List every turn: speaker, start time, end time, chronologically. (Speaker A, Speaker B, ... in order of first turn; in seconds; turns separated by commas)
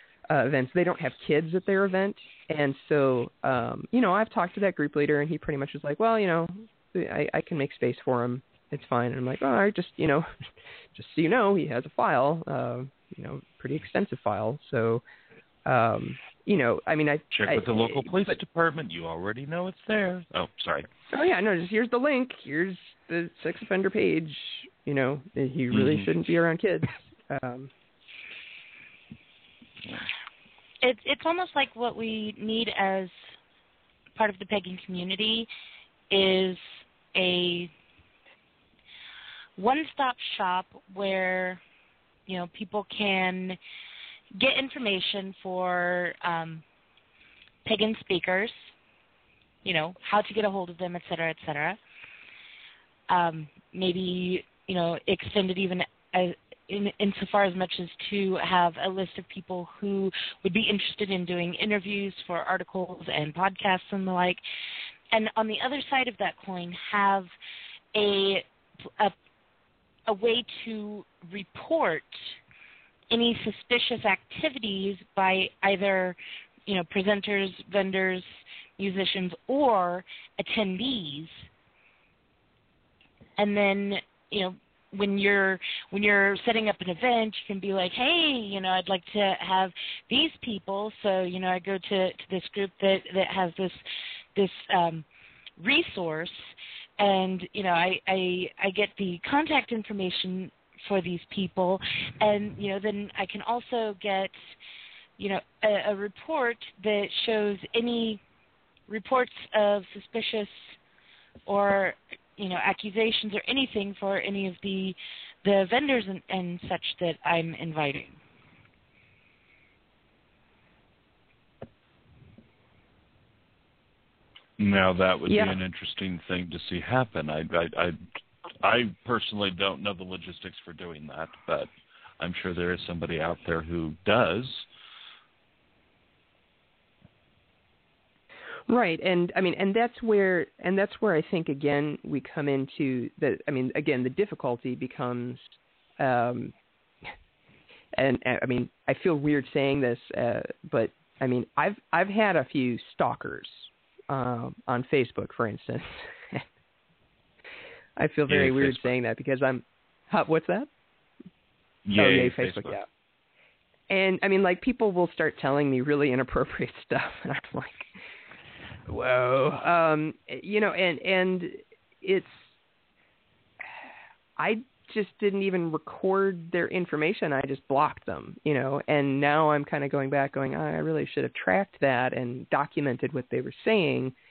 Speaker A: 0.3-10.3, Speaker A: 10.9-15.0, Speaker A: 15.7-18.4, Speaker B: 17.3-20.9, Speaker A: 21.1-27.7, Speaker B: 25.7-26.1, Speaker C: 30.8-33.1, Speaker C: 34.2-35.5, Speaker C: 36.1-36.6, Speaker C: 37.1-37.7, Speaker C: 39.6-41.6, Speaker C: 42.3-43.6, Speaker C: 44.4-46.6, Speaker C: 47.6-48.6, Speaker C: 49.6-51.8, Speaker C: 53.1-64.4, Speaker C: 65.1-67.3, Speaker C: 67.9-68.5, Speaker C: 70.1-72.1, Speaker C: 73.1-76.2, Speaker C: 76.7-78.3, Speaker C: 78.8-81.3, Speaker C: 83.4-93.8, Speaker C: 94.3-95.0, Speaker C: 95.6-104.3, Speaker C: 105.2-108.2, Speaker C: 108.9-110.5, Speaker C: 111.5-118.2, Speaker B: 124.6-128.0, Speaker A: 125.3-125.6, Speaker B: 128.6-134.7, Speaker A: 138.7-146.5, Speaker A: 147.9-156.4, Speaker A: 158.0-160.7, Speaker B: 158.3-158.9, Speaker B: 161.9-162.8, Speaker A: 162.0-162.9, Speaker A: 163.9-167.9, Speaker A: 168.9-172.5, Speaker A: 174.4-184.1